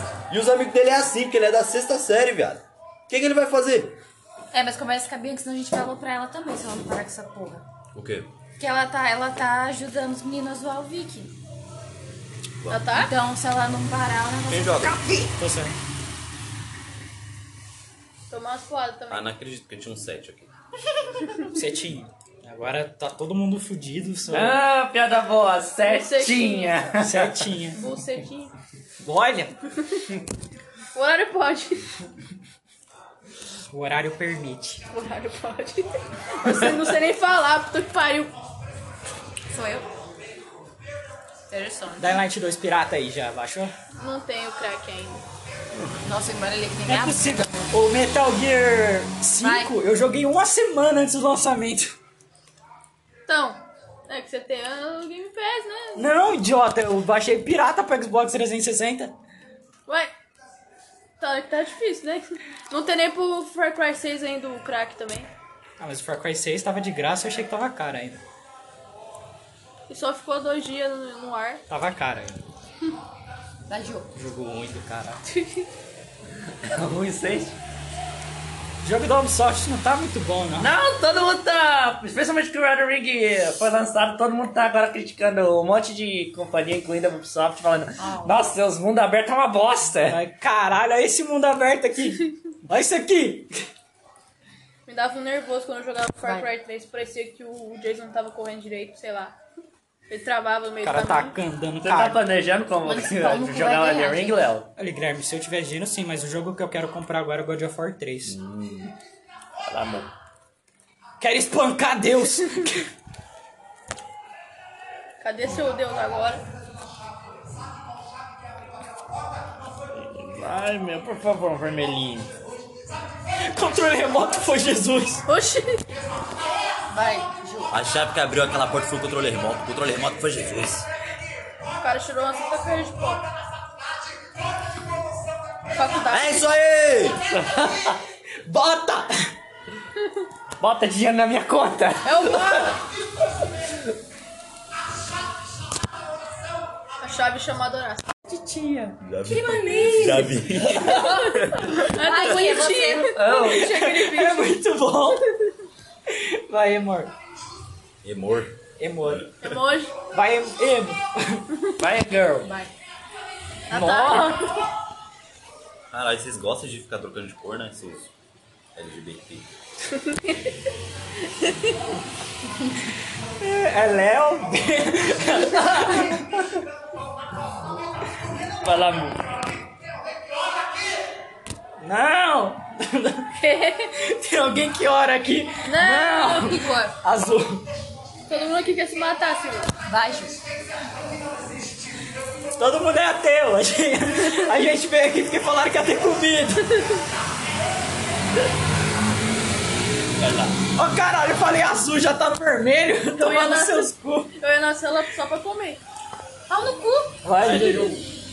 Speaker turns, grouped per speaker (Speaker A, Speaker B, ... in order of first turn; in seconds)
Speaker A: 0.3-4.0, 8.0-8.3, 12.6-12.9, 14.5-15.0, 19.1-20.5, 127.7-130.9, 136.1-137.2, 149.0-151.9, 158.0-159.6, 165.9-168.1, 168.8-169.5, 207.5-207.9
Speaker B: 4.5-7.6, 8.6-11.3, 12.9-15.3, 39.5-39.9, 41.5-42.2, 46.0-47.7, 49.4-49.7, 73.7-74.1, 88.0-88.4, 96.2-96.5, 102.8-104.4, 126.9-127.7, 149.2-153.2, 186.3-186.9, 189.9-190.4, 206.5-207.2
Speaker C: 12.7-13.1, 18.3-19.3, 25.8-26.9, 27.7-28.5, 30.9-31.9, 34.9-38.3, 44.0-45.2, 53.3-56.0, 61.2-65.3, 69.9-71.6, 75.3-75.7, 94.9-99.4, 100.1-101.4, 115.2-116.4, 125.3-125.8, 131.8-133.2, 135.7-136.6, 142.0-142.8, 147.0-148.2, 150.9-154.6, 159.4-160.0, 163.7-164.7, 169.9-170.6, 171.2-171.8, 183.4-184.0, 185.7-186.6, 188.3-189.7, 203.2-205.8
Speaker D: 15.4-15.7, 21.5-24.6, 27.0-27.8, 29.0-29.5, 33.7-34.8, 42.0-43.7, 46.9-52.0, 56.0-59.1, 65.8-68.2, 71.7-72.4, 74.1-75.2, 78.8-80.7, 90.1-93.5, 100.8-102.2, 104.8-108.4, 111.2-112.9, 123.5-125.2, 138.4-139.3, 148.3-149.0, 153.4-155.2, 156.1-157.1, 158.8-159.3, 160.1-161.5, 163.7-164.4, 173.4-176.5, 181.8-183.3, 184.0-187.6, 192.6-196.8, 200.8-204.3, 207.2-208.0
Speaker E: 24.3-27.5, 76.6-77.6, 80.6-90.2, 101.8-104.7, 108.3-108.9, 109.7-110.1, 120.0-122.3, 137.3-138.0, 140.6-142.8, 153.2-153.7, 161.8-162.5, 178.6-179.4, 200.2-200.5